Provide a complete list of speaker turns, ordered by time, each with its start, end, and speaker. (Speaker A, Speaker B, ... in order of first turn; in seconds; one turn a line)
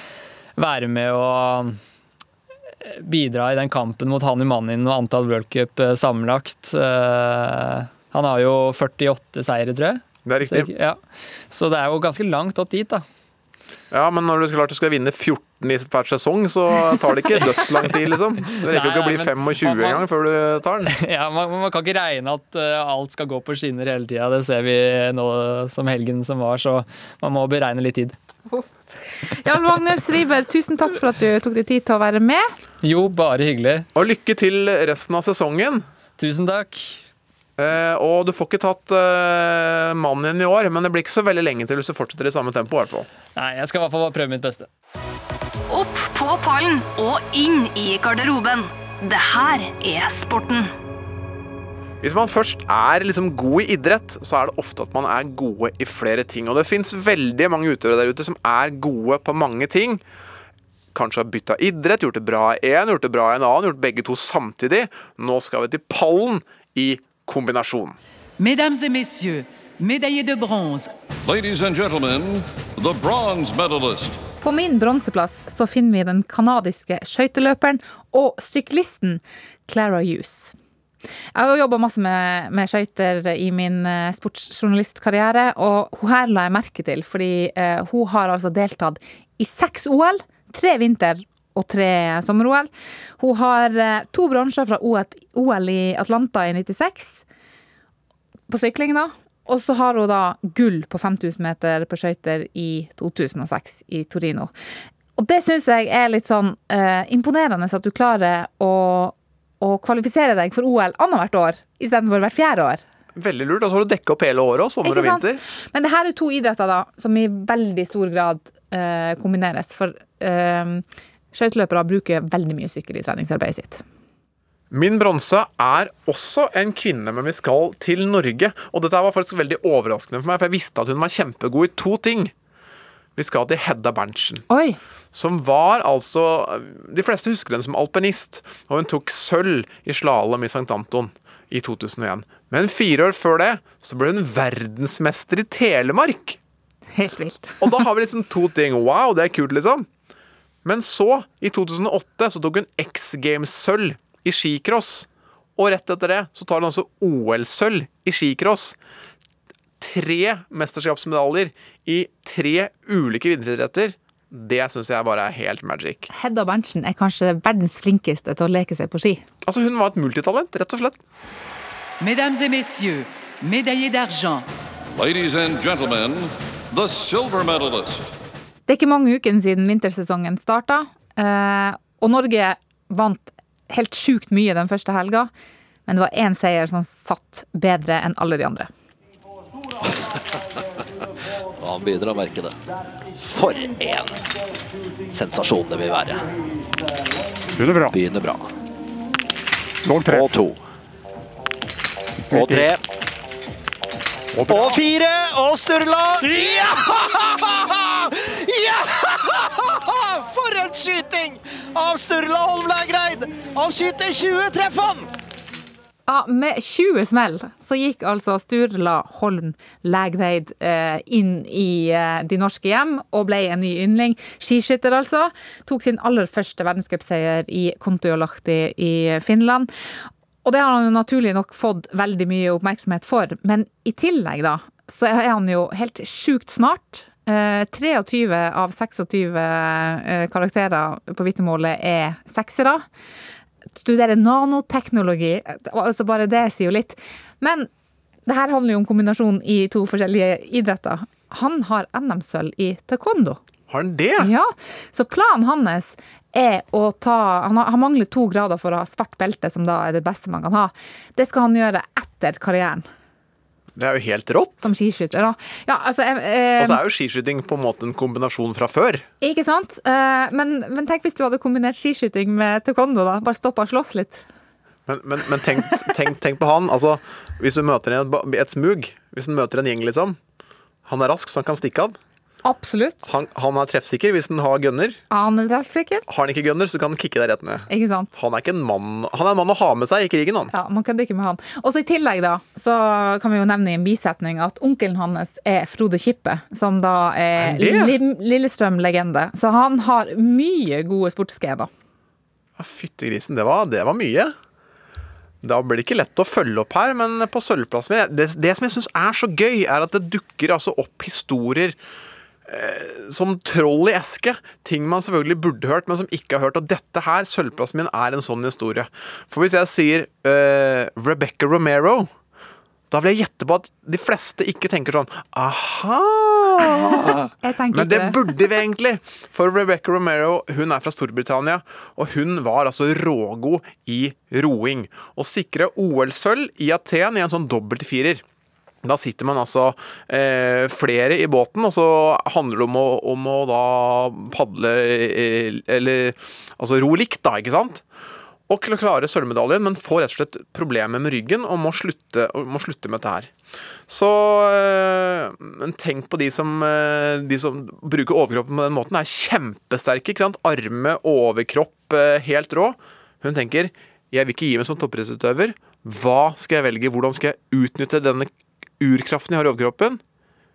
Speaker A: 0.6-1.8
Speaker A: 2.8-13.0
Speaker B: 10.3-10.7
Speaker B: 13.9-20.9
Speaker A: 18.5-20.1
Speaker A: 20.9-28.1
Speaker C: 29.3-32.5
Speaker A: 32.8-33.9
Speaker B: 34.0-35.9
Speaker A: 36.2-37.0
Speaker B: 37.6-43.1
Speaker A: 43.4-44.7
Speaker D: 45.7-50.7
Speaker B: 52.0-60.0
Speaker B: 60.9-68.0
Speaker E: 68.4-70.9
Speaker F: 71.2-74.2
Speaker C: 74.4-80.5
Speaker C: 81.3-97.2
Speaker C: 98.5-104.5
Speaker C: 105.2-112.8
Speaker B: 113.2-115.4
Speaker C: 114.8-123.8
Speaker B: 124.7-132.3
Speaker B: 133.2-134.5
Speaker C: 134.5-134.8
Speaker B: 135.1-146.4
Speaker C: 146.9-147.8
Speaker B: 147.6-149.9
Speaker B: 150.7-158.8
Speaker B: 159.8-166.1
Speaker C: 166.1-169.2
Speaker B: 169.4-171.0
Speaker E: 172.0-174.5
Speaker F: 174.9-178.1
Speaker C: 178.7-185.3
Speaker C: 185.9-188.7
Speaker G: 191.6-192.6
Speaker G: 193.2-194.2
Speaker G: 195.1-196.3
Speaker G: 197.9-198.5
Speaker G: 200.0-200.6
Speaker G: 202.3-202.8
Speaker G: 204.5-206.4
Speaker C: 216.1-229.7
Speaker C: 230.4-242.8
Speaker C: 243.7-247.7
Speaker C: 248.3-253.4
Speaker B: 253.7-254.3
Speaker C: 254.2-262.9
Speaker B: 263.8-264.7
Speaker C: 264.6-266.8
Speaker B: 266.6-269.1
Speaker C: 269.2-274.2
Speaker B: 274.9-280.2
Speaker B: 280.9-282.0
Speaker C: 282.4-283.1
Speaker B: 283.1-285.0
Speaker C: 285.1-286.1
Speaker B: 286.1-290.5
Speaker C: 287.7-288.1
Speaker C: 290.5-301.7
Speaker B: 297.4-297.9
Speaker B: 302.6-304.3
Speaker B: 305.4-311.8
Speaker B: 312.5-322.1
Speaker B: 322.9-338.2
Speaker C: 327.4-328.2
Speaker B: 338.8-347.8
Speaker B: 348.5-353.3
Speaker B: 353.9-370.0